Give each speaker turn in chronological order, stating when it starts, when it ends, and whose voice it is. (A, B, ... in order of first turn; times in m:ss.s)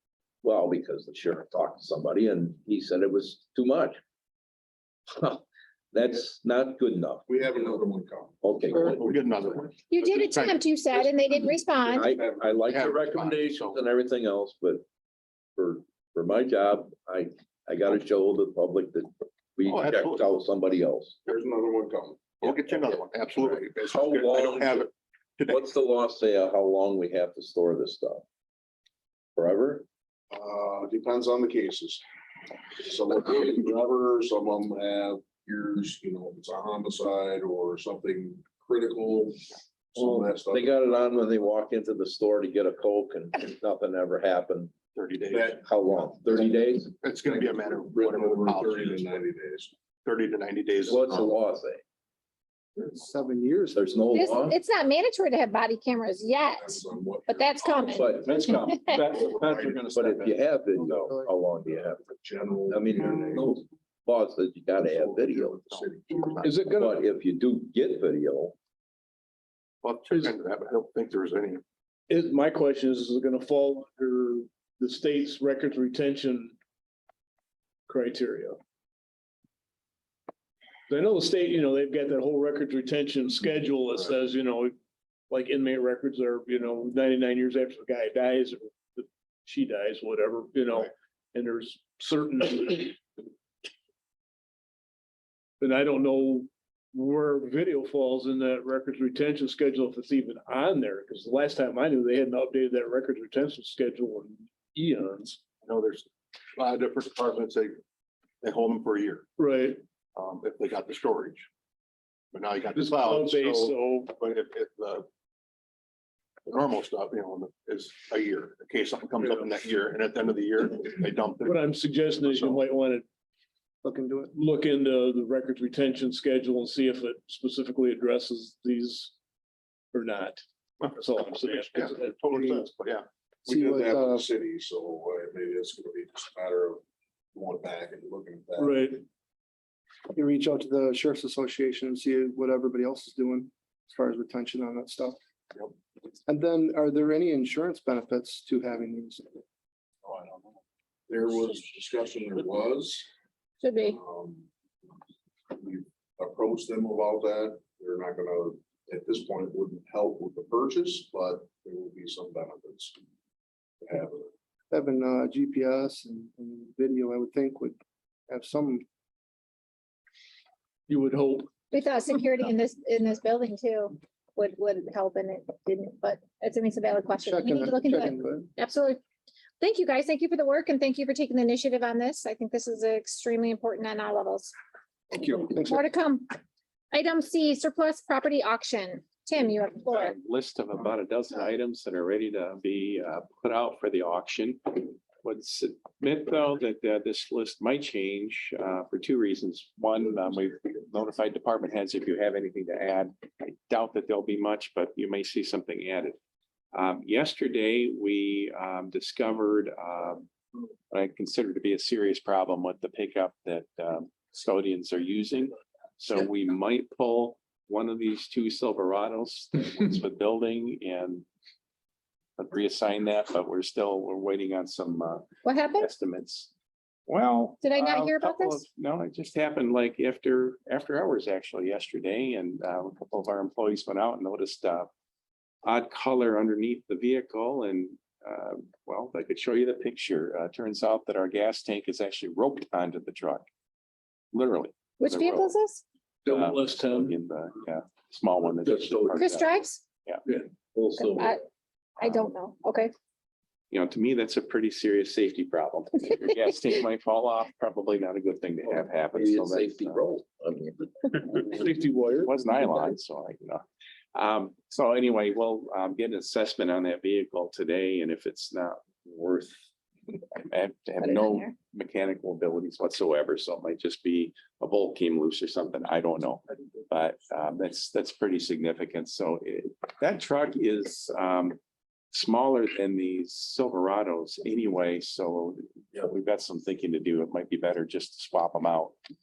0:00.4-0:04.0 A
0:05.1-0:07.8 A
0:07.3-0:08.4 B
0:08.4-0:09.0 A
0:08.8-0:11.6 C
0:09.9-0:12.1 D
0:11.9-0:12.4 B
0:11.9-0:14.8 A
0:12.5-0:13.8 C
0:15.6-0:21.2 A
0:19.6-0:20.3 C
0:21.3-0:22.4 B
0:22.4-0:25.6 C
0:22.4-0:24.9 A
0:25.5-0:28.2 A
0:29.4-0:29.9 A
0:30.3-0:32.0 B
0:32.8-0:40.8 B
0:40.0-0:44.7 A
0:45.0-0:45.6 C
0:45.3-0:46.6 B
0:45.6-0:46.9 A
0:47.0-0:49.1 C
0:47.2-0:49.7 B
0:50.0-0:51.4 C
0:50.9-0:51.8 A
0:52.8-0:54.4 E
0:53.8-0:54.6 A
0:54.1-0:59.2 D
0:56.5-1:00.4 B
0:57.9-1:02.1 A
1:00.8-1:01.3 E
1:01.6-1:03.6 B
1:02.7-1:05.6 A
1:04.8-1:06.5 B
1:06.4-1:07.0 F
1:06.8-1:08.6 A
1:09.8-1:11.6 C
1:12.1-1:16.6 F
1:17.9-1:18.6 F
1:20.9-1:24.8 F
1:25.3-1:33.0 F
1:35.6-1:45.4 F
1:45.6-1:47.8 C
1:48.4-1:49.3 C
1:49.4-1:49.8 F
1:50.2-1:51.5 C
1:52.3-1:55.1 C
1:52.7-1:54.1 F
1:56.5-2:01.7 C
1:59.1-1:59.5 F
2:01.4-2:03.0 F
2:02.2-2:02.6 C
2:03.8-2:04.4 E
2:04.4-2:09.1 F
2:09.9-2:10.4 F
2:10.9-2:12.2 F
2:11.6-2:13.1 C
2:13.5-2:14.3 E
2:13.5-2:16.8 B
2:17.3-2:18.8 B
2:18.6-2:19.0 F
2:20.1-2:25.2 E
2:26.3-2:29.3 E
2:31.1-2:33.1 B
2:33.6-2:34.0 D
2:33.8-2:34.5 B
2:35.5-2:43.0 B
2:43.8-2:44.3 B
2:44.7-2:47.8 E
2:48.3-2:48.8 E
2:50.9-2:51.5 F
2:51.7-2:59.0 D
2:57.2-2:58.5 E
2:59.6-3:04.5 D
3:05.1-3:05.8 E
3:05.6-3:06.3 D
3:06.9-3:10.2 D
3:10.0-3:26.2 G
3:26.7-3:30.3 G
3:30.9-3:41.2 G
3:42.4-3:46.5 G
3:45.4-3:45.9 D
3:47.1-3:54.9 G
3:47.6-3:48.7 D
3:55.6-4:03.5 G
4:04.3-4:05.6 G
4:05.0-4:05.8 D
4:06.3-4:07.2 F
4:06.3-4:10.2 G
4:08.6-4:09.2 A
4:09.2-4:09.8 D
4:10.7-4:11.4 A
4:11.0-4:11.4 D
4:12.0-4:12.9 D
4:13.7-4:20.0 G
4:18.6-4:21.2 A
4:21.3-4:22.3 F
4:22.2-4:29.6 G
4:30.4-4:41.6 G
4:42.1-4:49.0 G